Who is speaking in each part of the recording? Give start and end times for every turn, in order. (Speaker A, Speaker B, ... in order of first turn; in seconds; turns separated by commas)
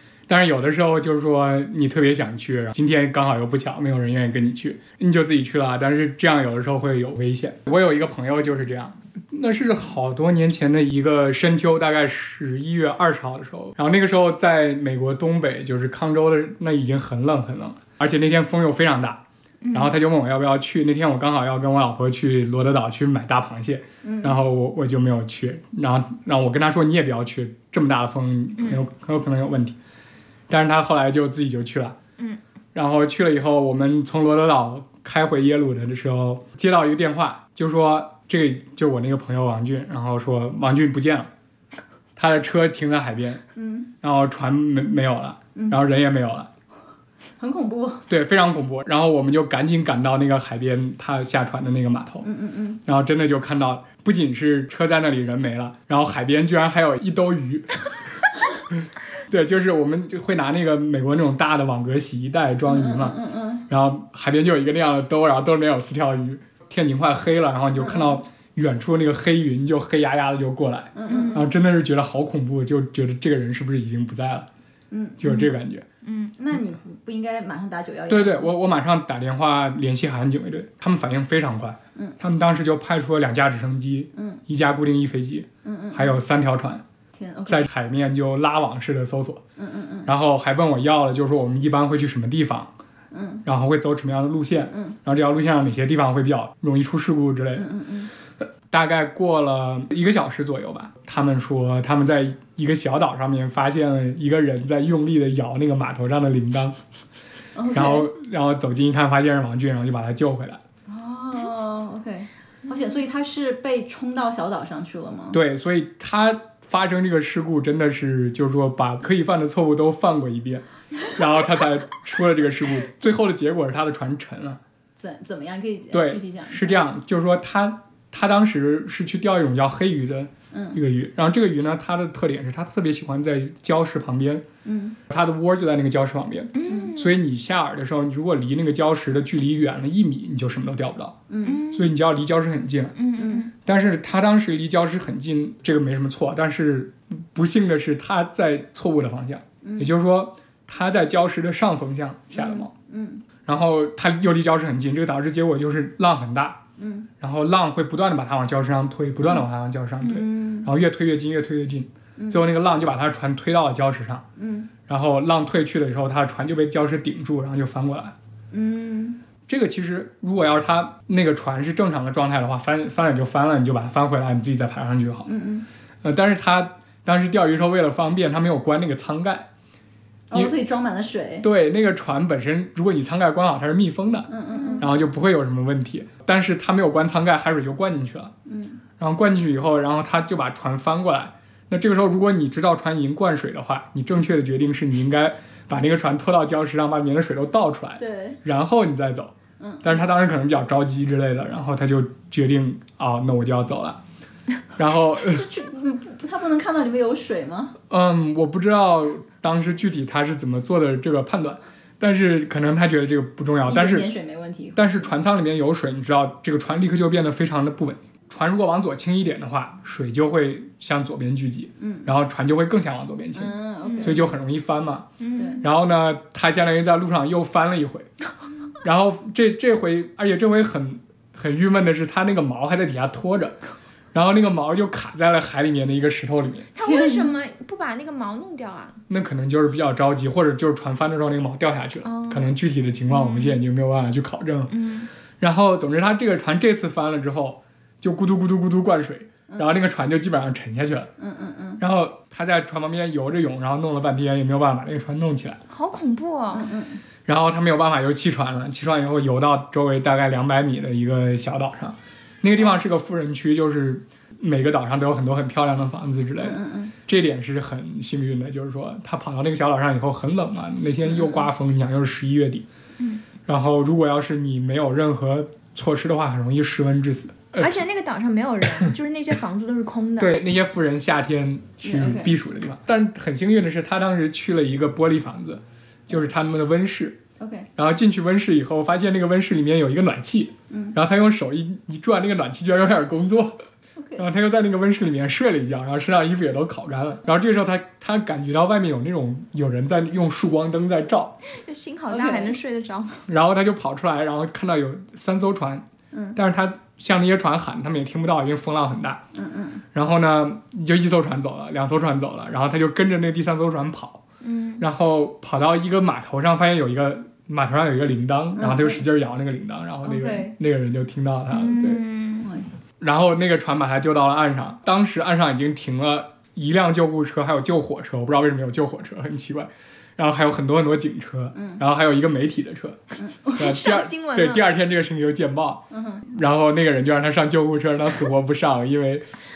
Speaker A: 0.3-19.2, Speaker B: 19.6-19.9, Speaker A: 19.7-29.8, Speaker C: 24.0-24.4, Speaker A: 30.5-32.0, Speaker A: 32.7-41.3, Speaker A: 42.2-43.4, Speaker C: 43.6-43.9, Speaker A: 44.0-46.5, Speaker C: 45.5-45.8, Speaker C: 47.4-48.1, Speaker A: 48.1-52.3, Speaker C: 52.2-52.8, Speaker A: 52.9-58.2, Speaker A: 58.7-74.5, Speaker C: 62.7-63.6, Speaker C: 67.8-68.2, Speaker C: 71.0-71.5, Speaker B: 71.1-71.5, Speaker C: 74.9-75.5, Speaker A: 75.2-75.9, Speaker B: 76.0-76.3, Speaker C: 76.4-78.5, Speaker A: 78.1-86.8, Speaker C: 84.2-84.4, Speaker C: 85.6-86.2, Speaker C: 87.1-87.7, Speaker A: 87.5-89.4, Speaker C: 89.6-90.1, Speaker A: 90.1-92.7, Speaker C: 93.1-93.4, Speaker A: 93.5-97.7, Speaker C: 94.7-95.0, Speaker C: 97.5-98.1, Speaker A: 98.7-106.8, Speaker C: 107.5-108.1, Speaker A: 107.7-110.6, Speaker C: 110.9-115.4, Speaker A: 115.3-124.6, Speaker C: 125.0-126.9, Speaker A: 125.9-134.4, Speaker C: 130.5-130.8, Speaker C: 134.7-135.0, Speaker A: 135.1-141.2, Speaker B: 136.5-137.2, Speaker C: 141.3-141.7, Speaker B: 141.4-141.9, Speaker A: 141.7-143.0, Speaker B: 143.0-143.5, Speaker C: 143.2-143.5, Speaker A: 143.6-152.7, Speaker C: 149.6-149.9, Speaker C: 152.3-153.2, Speaker A: 153.4-156.6, Speaker C: 156.8-157.1, Speaker A: 157.2-164.3, Speaker C: 160.0-160.7, Speaker C: 162.2-162.5, Speaker C: 164.4-164.7, Speaker A: 164.9-168.2, Speaker C: 168.5-169.2, Speaker A: 169.5-175.3, Speaker C: 175.3-175.7, Speaker A: 176.0-179.5, Speaker C: 180.3-181.5, Speaker A: 181.4-188.3, Speaker C: 184.3-184.9, Speaker B: 184.5-184.9, Speaker C: 188.5-188.8, Speaker A: 189.0-204.0, Speaker C: 198.0-198.4, Speaker C: 199.6-200.0, Speaker A: 204.8-205.5, Speaker C: 205.1-207.8, Speaker A: 207.9-214.1, Speaker C: 213.7-215.1, Speaker A: 214.8-228.1, Speaker C: 221.8-222.1, Speaker C: 223.3-224.3, Speaker B: 223.8-224.2, Speaker B: 225.2-225.6, Speaker C: 225.4-225.6, Speaker A: 228.8-233.6, Speaker A: 234.1-236.7, Speaker B: 236.8-239.0, Speaker C: 236.8-237.4, Speaker A: 239.1-244.8, Speaker B: 242.0-242.5, Speaker B: 243.1-243.6, Speaker B: 244.7-245.1, Speaker A: 245.4-251.1, Speaker C: 251.2-251.8, Speaker A: 251.8-255.6, Speaker B: 255.7-256.7, Speaker C: 256.5-257.0, Speaker A: 257.3-272.7, Speaker C: 266.4-266.9, Speaker C: 271.1-271.5, Speaker A: 273.4-277.8, Speaker B: 277.6-280.4, Speaker A: 280.2-287.2, Speaker C: 281.8-282.3, Speaker C: 287.4-287.7, Speaker A: 287.8-293.6, Speaker C: 290.7-291.0, Speaker C: 294.0-294.2, Speaker A: 294.2-301.4, Speaker B: 301.4-303.2, Speaker C: 302.1-302.6, Speaker A: 303.3-309.2, Speaker C: 309.4-309.8, Speaker A: 309.9-314.2, Speaker B: 314.4-314.8, Speaker A: 314.8-322.0, Speaker C: 318.6-319.1, Speaker C: 320.0-320.5, Speaker B: 321.5-322.5, Speaker C: 322.4-322.7, Speaker A: 323.0-339.2, Speaker C: 331.6-331.8, Speaker C: 333.2-333.5, Speaker B: 333.5-334.7, Speaker C: 335.9-336.2